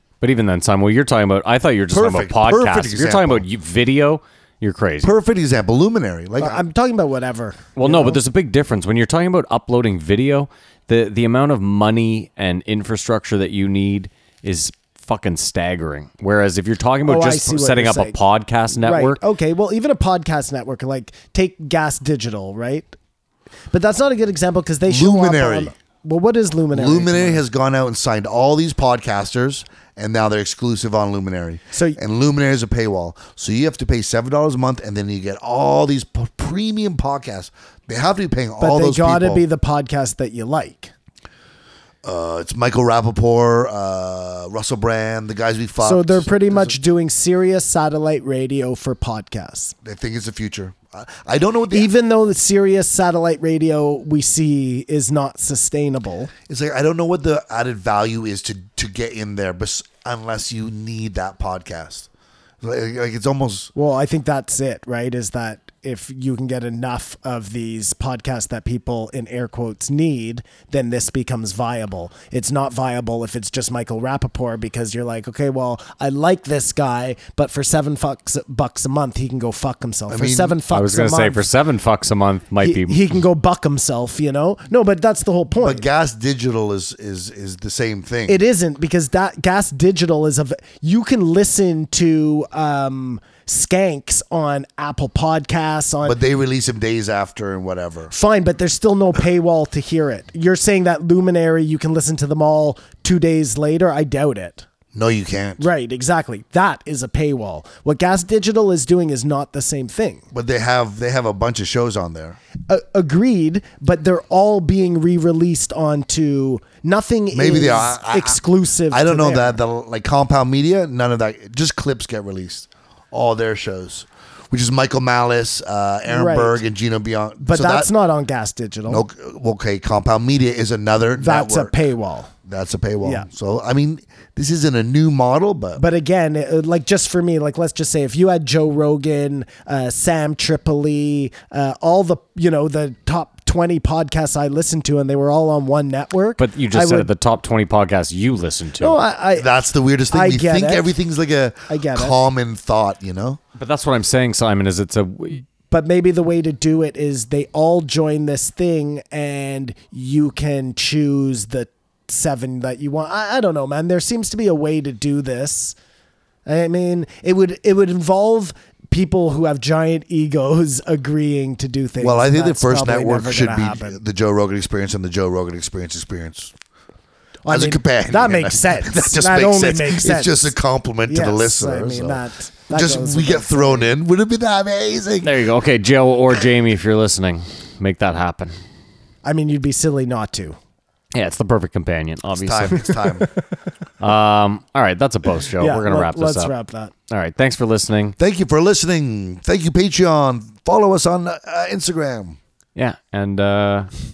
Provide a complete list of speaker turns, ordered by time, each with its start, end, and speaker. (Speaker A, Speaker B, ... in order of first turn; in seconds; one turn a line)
Speaker A: 0.2-5.1
Speaker B: 1.9-3.4
Speaker B: 5.0-6.6
Speaker C: 6.4-8.2
Speaker A: 7.8-19.2
Speaker C: 17.1-18.1
Speaker C: 18.8-23.0
Speaker C: 23.7-27.4
Speaker B: 24.9-25.7
Speaker B: 26.7-39.4
Speaker C: 31.7-32.0
Speaker C: 38.6-40.9
Speaker B: 42.0-46.8
Speaker C: 45.8-49.7
Speaker B: 49.8-51.9
Speaker C: 51.7-56.3
Speaker B: 56.5-62.1
Speaker B: 62.6-63.7
Speaker C: 63.7-81.5
Speaker B: 80.1-80.6
Speaker A: 80.7-83.1
Speaker C: 82.6-85.8
Speaker B: 85.6-88.4
Speaker C: 88.3-96.2
Speaker B: 96.0-98.1
Speaker C: 98.1-104.7
Speaker B: 104.9-105.7
Speaker C: 105.6-110.2
Speaker B: 110.3-112.4
Speaker C: 112.7-119.6
Speaker B: 117.3-127.9
Speaker C: 126.1-126.6
Speaker C: 127.4-129.0
Speaker B: 128.9-131.7
Speaker C: 131.2-132.3
Speaker B: 132.4-135.8
Speaker C: 133.0-133.3
Speaker C: 135.7-147.1
Speaker A: 146.4-149.0
Speaker C: 148.8-150.9
Speaker B: 149.3-153.4
Speaker C: 151.7-152.2
Speaker A: 153.6-155.4
Speaker C: 155.7-165.8
Speaker C: 166.4-174.0
Speaker B: 172.0-176.5
Speaker C: 177.4-180.5
Speaker B: 177.5-185.4
Speaker C: 181.1-183.9
Speaker A: 185.2-188.5
Speaker C: 189.2-190.6
Speaker A: 191.1-193.0
Speaker B: 192.4-193.3
Speaker A: 194.0-196.5
Speaker C: 195.6-196.9
Speaker A: 197.1-198.2
Speaker B: 198.2-202.4
Speaker A: 202.7-203.9